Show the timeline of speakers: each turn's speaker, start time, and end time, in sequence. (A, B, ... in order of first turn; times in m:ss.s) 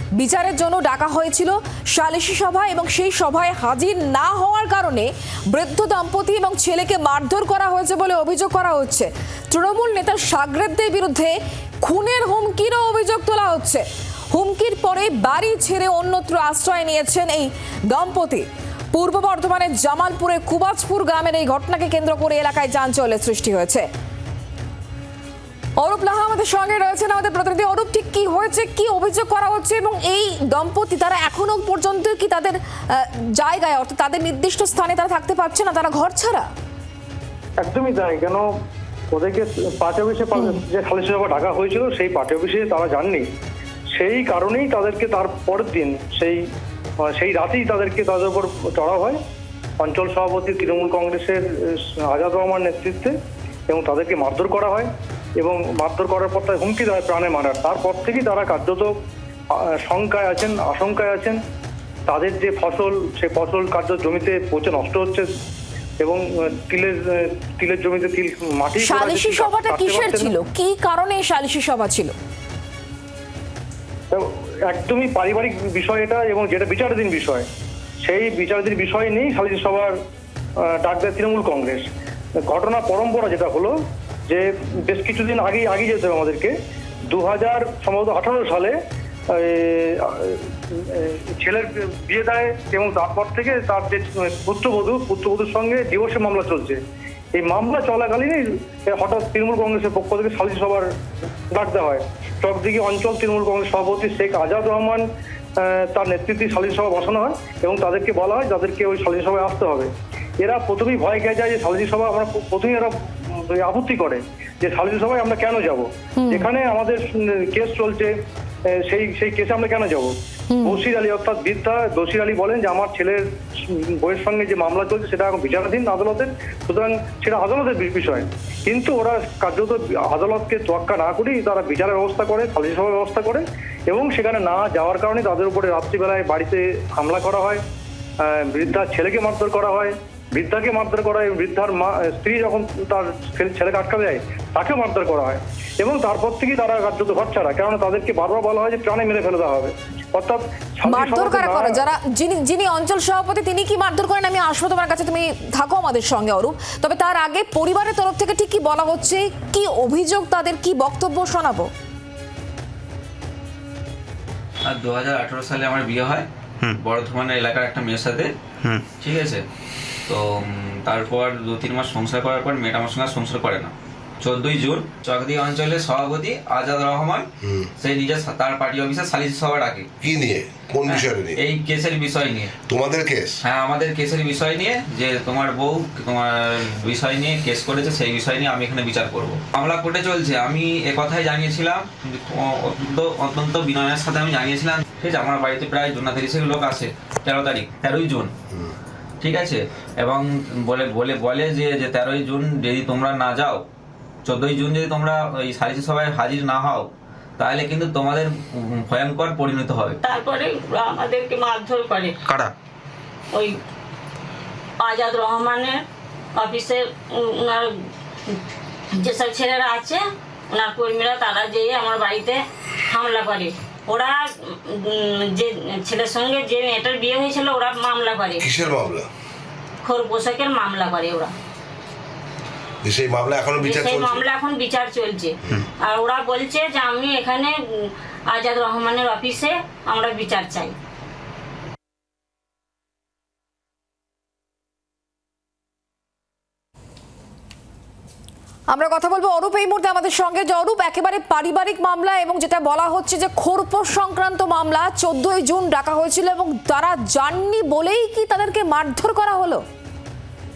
0:00.2-0:23.9 A
0:25.8-0:36.5 A
0:37.6-0:38.4 B
0:39.1-0:43.3 B
0:40.3-0:40.6 A
0:43.9-0:46.4 B
0:47.0-0:49.2 B
0:49.8-0:53.2 B
0:53.7-0:58.9 B
0:59.5-1:01.4 B
1:02.1-1:05.3 B
1:06.0-1:10.3 B
1:08.8-1:12.1 A
1:14.1-1:17.5 B
1:18.1-1:20.0 B
1:20.6-1:21.9 B
1:22.5-1:23.8 B
1:24.3-1:26.5 B
1:27.1-1:28.8 B
1:29.3-1:36.8 B
1:37.3-1:40.9 B
1:41.5-1:45.0 B
1:45.6-1:58.1 B
1:56.2-1:56.5 A
1:58.7-2:00.1 B
2:00.5-2:00.8 A
2:00.6-2:17.6 B
2:18.2-2:31.8 B
2:30.8-2:41.7 A
2:44.7-2:46.3 C
2:46.8-2:48.3 C
2:49.0-2:49.4 C
2:50.1-2:57.3 C
2:57.8-2:59.9 C
3:00.0-3:01.4 D
3:00.8-3:02.5 C
3:02.7-3:03.4 D
3:03.4-3:18.3 C
3:19.2-3:23.6 C
3:24.2-3:30.0 C
3:30.0-3:32.2 E
3:33.3-3:33.6 E
3:34.8-3:35.8 E
3:36.4-3:37.7 E
3:39.0-3:48.5 E
3:48.4-3:49.1 D
3:49.8-3:51.3 E
3:52.8-3:54.2 D
3:53.5-4:00.8 E
4:08.7-4:19.6 A